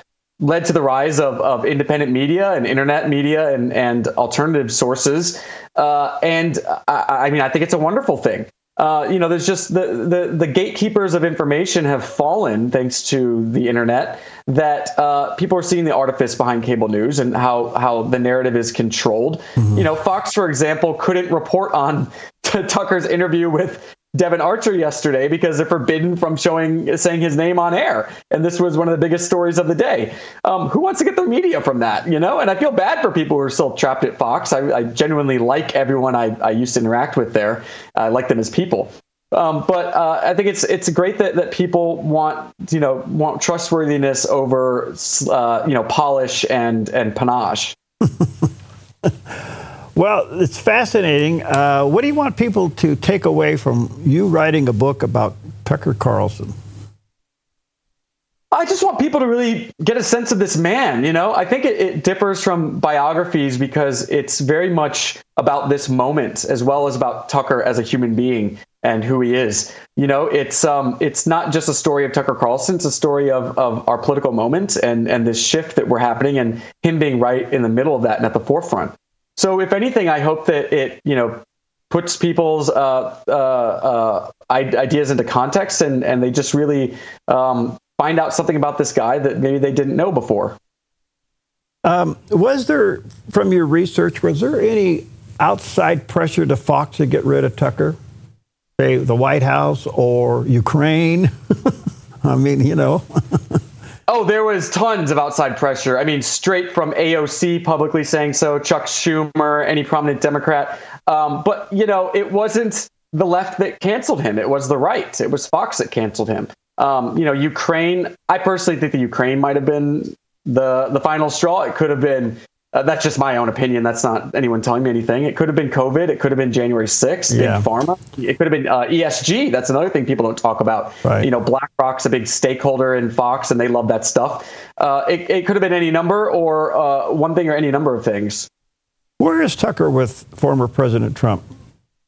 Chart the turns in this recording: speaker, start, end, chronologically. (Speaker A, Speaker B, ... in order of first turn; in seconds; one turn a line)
Speaker A: 0.4-47.8
Speaker B: 50.0-56.5
Speaker A: 58.5-90.6
Speaker B: 91.8-98.0
Speaker B: 98.8-103.6
Speaker A: 104.1-138.5
Speaker B: 127.3-127.6
Speaker B: 139.2-141.4